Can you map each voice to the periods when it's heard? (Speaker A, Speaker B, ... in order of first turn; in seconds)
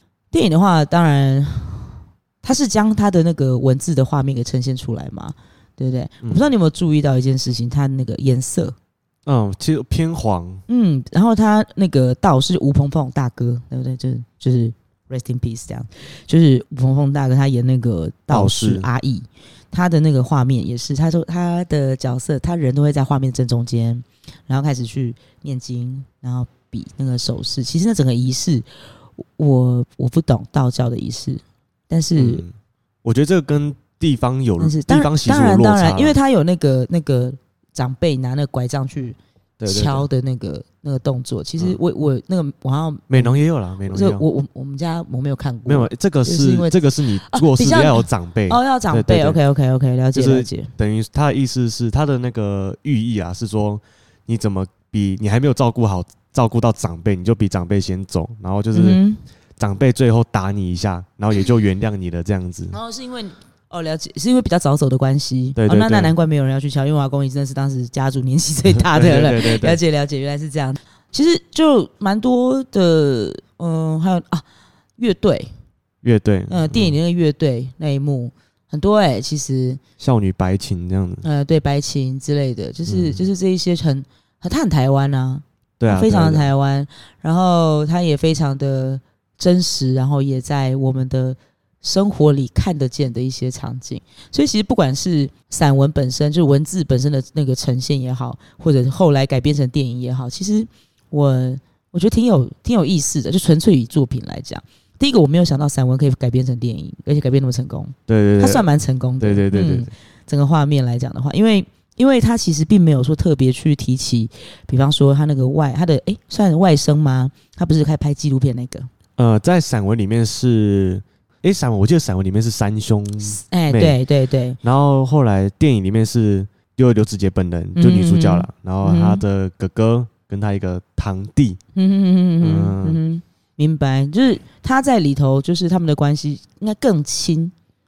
Speaker A: 0.3-8.8, 10.7-28.7, 29.4-32.4, 34.6-50.7, 58.7-59.2, 62.7-74.5, 75.0-75.5, 76.5-79.8, 81.2-118.9, 123.2-124.6, 127.8-129.2, 131.8-137.5
Speaker B: 6.2-6.5, 9.3-10.6, 18.3-18.9, 32.2-32.5, 33.0-36.2, 39.6-40.1, 43.1-44.2, 45.7-49.4, 50.1-59.0, 59.6-62.8, 65.6-66.1, 68.7-69.8, 76.0-77.0, 80.0-81.2, 82.9-83.2, 85.8-86.5, 108.1-108.7, 109.2-109.9, 119.2-124.0, 124.6-131.6, 132.4-133.0